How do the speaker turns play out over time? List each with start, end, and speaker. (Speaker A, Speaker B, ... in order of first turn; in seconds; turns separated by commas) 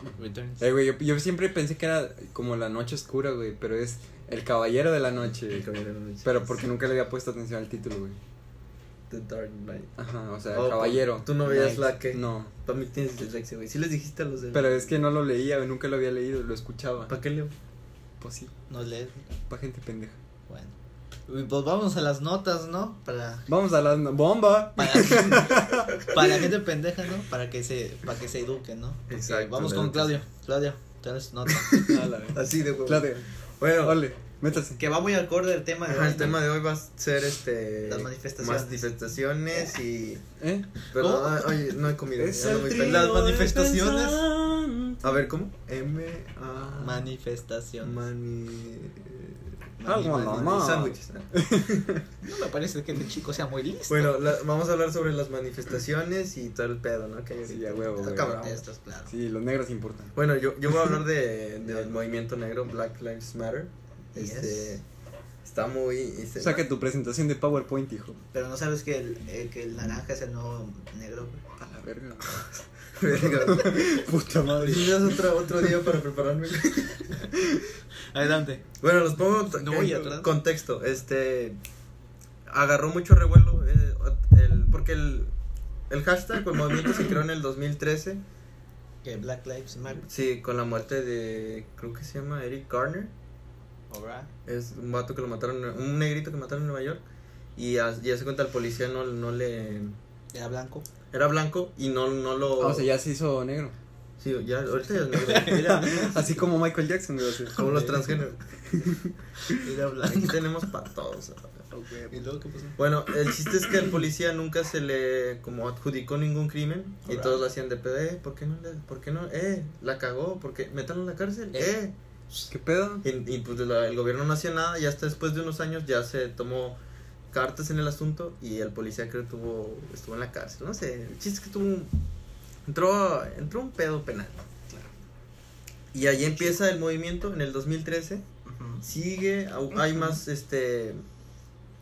Speaker A: 0.2-0.7, Speaker B: 0.6-5.7, Speaker C: 5.5-6.7, Speaker B: 6.2-8.2, Speaker C: 9.1-9.9, Speaker B: 10.0-12.5, Speaker C: 10.5-15.0, Speaker B: 14.5-17.1, Speaker C: 17.1-17.5, Speaker B: 18.2-18.5, Speaker A: 18.7-19.3, Speaker B: 19.5-20.2, Speaker A: 20.5-20.7, Speaker A: 21.3-23.5, Speaker B: 23.5-26.0, Speaker A: 24.8-32.0, Speaker C: 29.1-30.2, Speaker C: 31.6-34.0, Speaker B: 31.9-34.8, Speaker A: 34.8-36.4, Speaker C: 35.9-40.3, Speaker A: 37.8-38.8, Speaker B: 40.4-40.7, Speaker C: 40.9-43.1, Speaker A: 40.9-41.5, Speaker B: 42.1-45.2, Speaker A: 42.8-44.2, Speaker C: 45.0-47.1, Speaker A: 46.7-47.9, Speaker C: 47.8-51.9, Speaker A: 49.8-50.6, Speaker B: 49.8-52.0, Speaker A: 52.2-54.2, Speaker C: 53.9-58.6, Speaker B: 57.5-58.4, Speaker A: 58.0-59.1, Speaker B: 59.1-60.1, Speaker C: 60.1-64.8, Speaker A: 61.6-61.9, Speaker A: 64.1-64.8, Speaker C: 65.4-66.6, Speaker B: 66.4-68.2, Speaker A: 68.3-71.4, Speaker B: 71.6-72.3, Speaker C: 73.0-74.0, Speaker B: 73.1-75.2, Speaker A: 74.6-74.8, Speaker C: 74.6-77.1, Speaker B: 77.3-77.6, Speaker A: 78.1-78.6, Speaker C: 78.8-81.6, Speaker A: 79.5-80.3, Speaker C: 82.5-85.3, Speaker C: 85.9-88.2, Speaker A: 89.0-90.0, Speaker C: 90.1-93.1, Speaker A: 93.9-94.3, Speaker C: 94.5-97.0, Speaker C: 97.5-100.0, Speaker A: 100.3-100.9, Speaker C: 101.1-102.9, Speaker B: 102.6-103.7, Speaker C: 104.2-105.9, Speaker A: 104.8-106.4, Speaker B: 105.5-107.6, Speaker A: 107.5-108.1, Speaker C: 107.6-108.4, Speaker B: 108.7-109.5, Speaker A: 109.5-110.4, Speaker C: 110.0-111.7, Speaker A: 112.1-112.8, Speaker C: 112.8-121.9, Speaker A: 117.0-117.4, Speaker B: 122.5-123.0, Speaker C: 123.0-126.8, Speaker C: 127.3-131.9, Speaker C: 132.7-134.4, Speaker C: 135.9-138.2, Speaker A: 136.2-136.6, Speaker A: 138.4-138.8, Speaker C: 138.8-141.0